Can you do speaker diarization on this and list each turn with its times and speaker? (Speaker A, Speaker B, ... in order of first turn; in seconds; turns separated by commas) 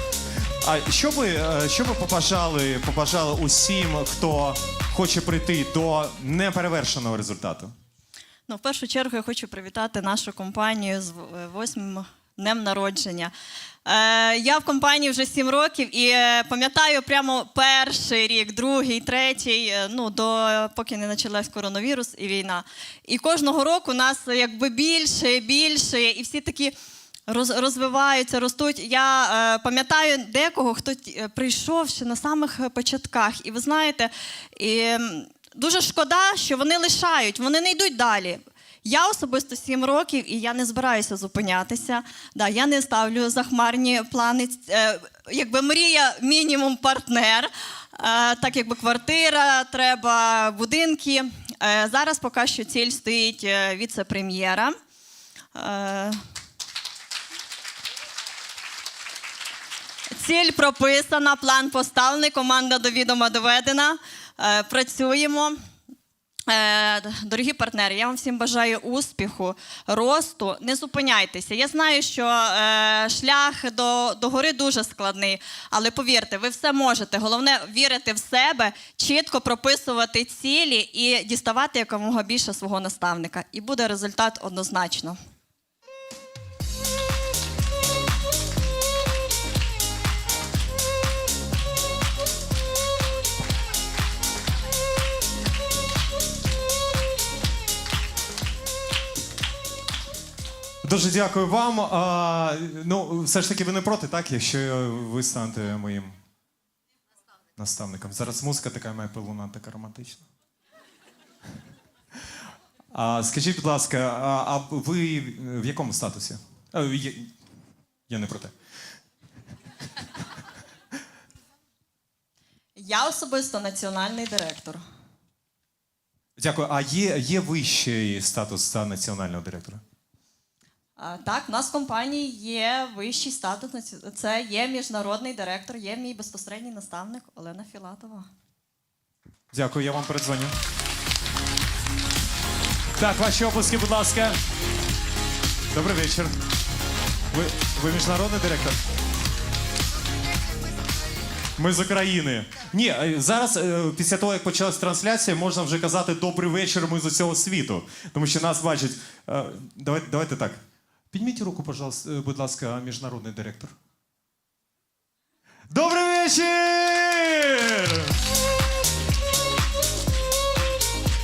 Speaker A: 0.4-7.7, Speaker B: 8.5-13.3, Speaker B: 13.9-26.8, Speaker B: 27.3-54.7, Speaker B: 55.5-56.2, Speaker B: 60.1-65.5, Speaker B: 66.5-85.2, Speaker A: 100.8-106.2, Speaker A: 107.6-110.3, Speaker A: 112.9-117.3, Speaker A: 118.1-118.5, Speaker B: 122.8-124.8, Speaker A: 126.4-129.8, Speaker B: 131.0-138.3, Speaker A: 139.5-140.6, Speaker A: 143.0-144.4, Speaker A: 145.7-146.4, Speaker A: 147.3-148.8, Speaker A: 151.6-160.6, Speaker A: 161.1-163.7, Speaker A: 165.7-168.1